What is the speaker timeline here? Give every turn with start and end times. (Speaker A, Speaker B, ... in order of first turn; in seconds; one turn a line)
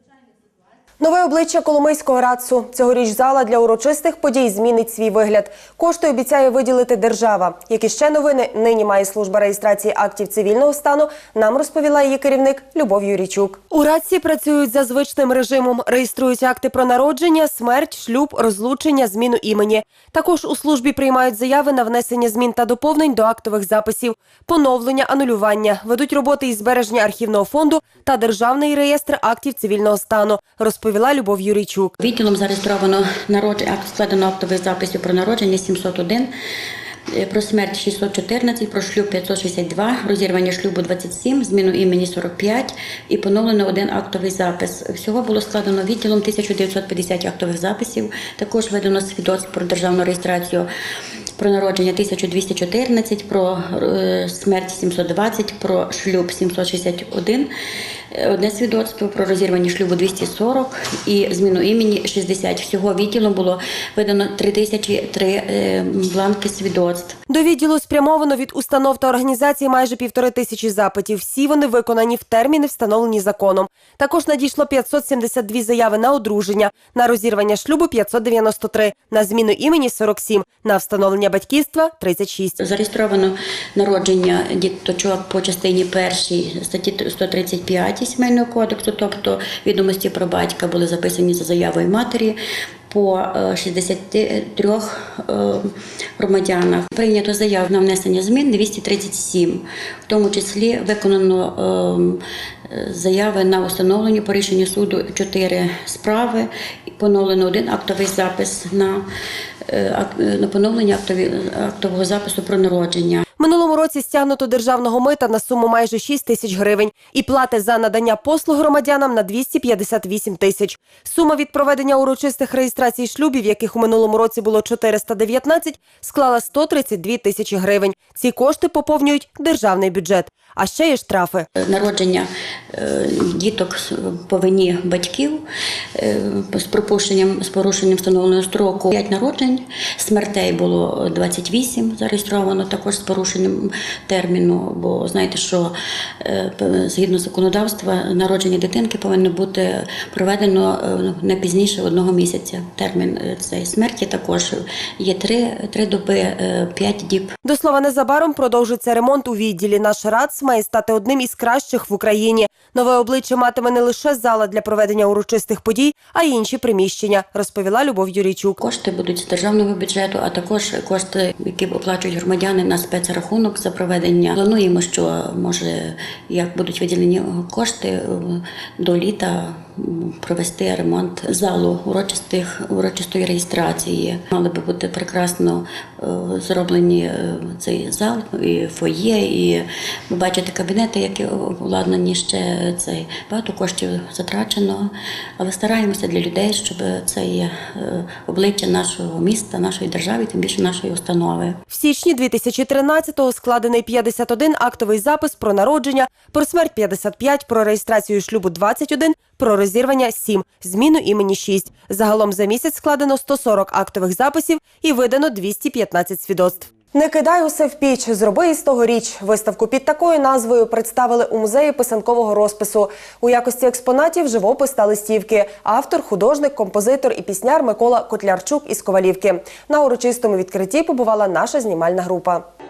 Speaker A: 1.0-32.0
Speaker B: 32.0-36.3
Speaker B: 37.1-50.7
Speaker B: 51.4-57.5
Speaker B: 58.1-67.2
Speaker A: 67.3-82.6
Speaker B: 82.6-92.4
Speaker B: 92.9-109.1
Speaker B: 109.7-113.2
Speaker A: 113.4-131.5
Speaker B: 131.6-135.4
Speaker B: 136.0-157.3
Speaker A: 157.4-168.6
Speaker B: 168.6-201.6
Speaker A: 201.7-232.5